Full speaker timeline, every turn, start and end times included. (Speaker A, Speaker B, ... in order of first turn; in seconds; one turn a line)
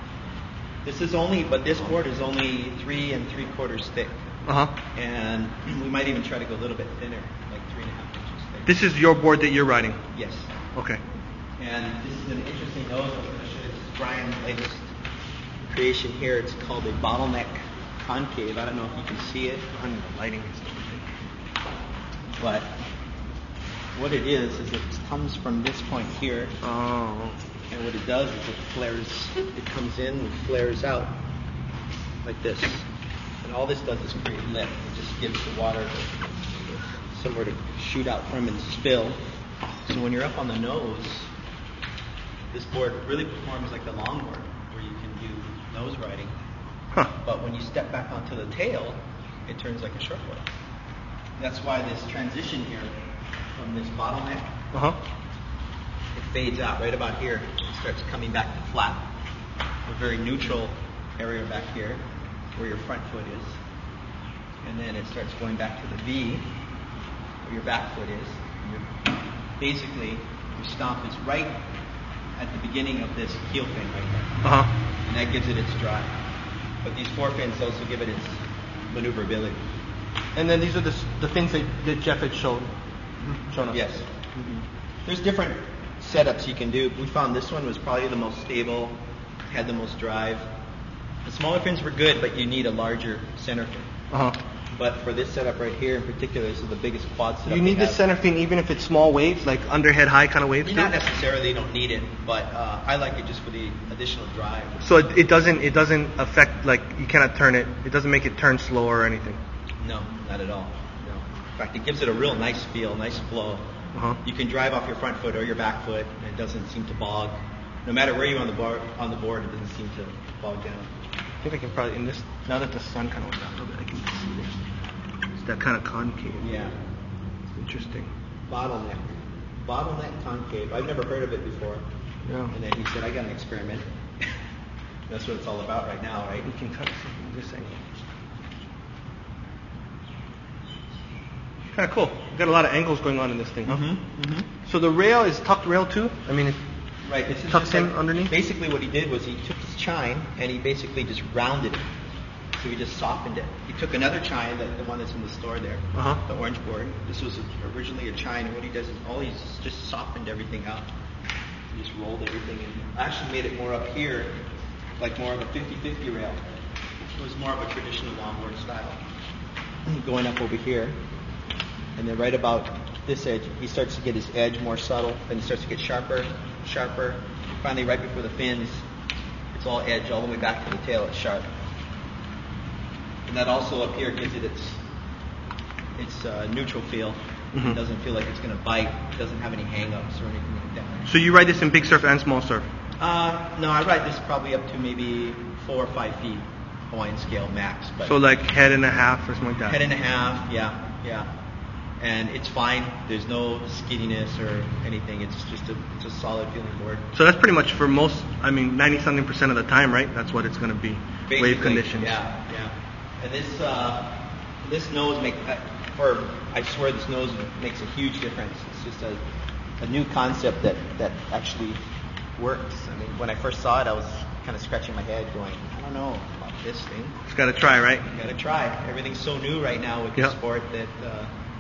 Speaker A: 0.8-4.2
Speaker B: 4.5-4.7
Speaker A: 4.9-8.8
Speaker B: 8.7-10.0
Speaker A: 10.1-10.5
Speaker B: 10.8-11.0
Speaker A: 11.6-14.9
Speaker A: 15.7-19.7
Speaker B: 19.7-21.0
Speaker A: 22.4-22.7
Speaker A: 23.9-26.5
Speaker B: 26.6-27.4
Speaker A: 27.7-31.2
Speaker A: 32.2-32.9
Speaker A: 33.4-39.2
Speaker A: 39.9-41.3
Speaker A: 42.5-46.3
Speaker A: 47.1-50.5
Speaker A: 51.4-53.0
Speaker A: 53.6-54.5
Speaker A: 56.1-59.0
Speaker A: 59.9-62.0
Speaker A: 62.6-63.6
Speaker A: 64.6-66.5
Speaker A: 67.4-68.9
Speaker A: 69.6-71.6
Speaker A: 72.4-74.5
Speaker B: 74.4-74.7
Speaker A: 75.0-76.2
Speaker A: 76.8-79.6
Speaker B: 80.4-82.7
Speaker A: 83.2-89.0
Speaker B: 83.5-83.8
Speaker A: 89.5-90.5
Speaker A: 91.2-93.9
Speaker B: 94.1-94.4
Speaker A: 94.7-98.0
Speaker B: 97.5-100.9
Speaker A: 100.6-105.1
Speaker B: 104.8-109.4
Speaker A: 109.8-113.7
Speaker B: 114.0-114.2
Speaker A: 114.2-120.9
Speaker B: 121.4-124.6
Speaker B: 125.4-126.5
Speaker A: 126.4-126.8
Speaker B: 127.6-128.1
Speaker A: 128.5-131.8
Speaker B: 132.3-132.5
Speaker A: 132.5-133.9
Speaker A: 135.1-136.5
Speaker B: 136.4-137.8
Speaker B: 141.7-143.8
Speaker A: 143.7-144.5
Speaker B: 144.7-146.6
Speaker A: 147.1-151.8
Speaker B: 147.4-148.3
Speaker A: 152.6-160.9
Speaker A: 161.7-164.4
Speaker A: 165.0-166.4
Speaker A: 167.2-169.0
Speaker A: 169.9-171.0
Speaker A: 172.0-178.8
Speaker A: 179.5-181.5
Speaker A: 183.3-184.8
Speaker A: 186.0-191.1
Speaker B: 191.1-192.7
Speaker A: 193.0-198.2
Speaker B: 198.1-199.8
Speaker A: 199.7-201.3
Speaker A: 202.0-207.0
Speaker B: 207.1-212.2
Speaker A: 211.3-219.2
Speaker A: 219.8-221.8
Speaker A: 222.4-227.2
Speaker B: 227.3-228.1
Speaker A: 228.1-231.3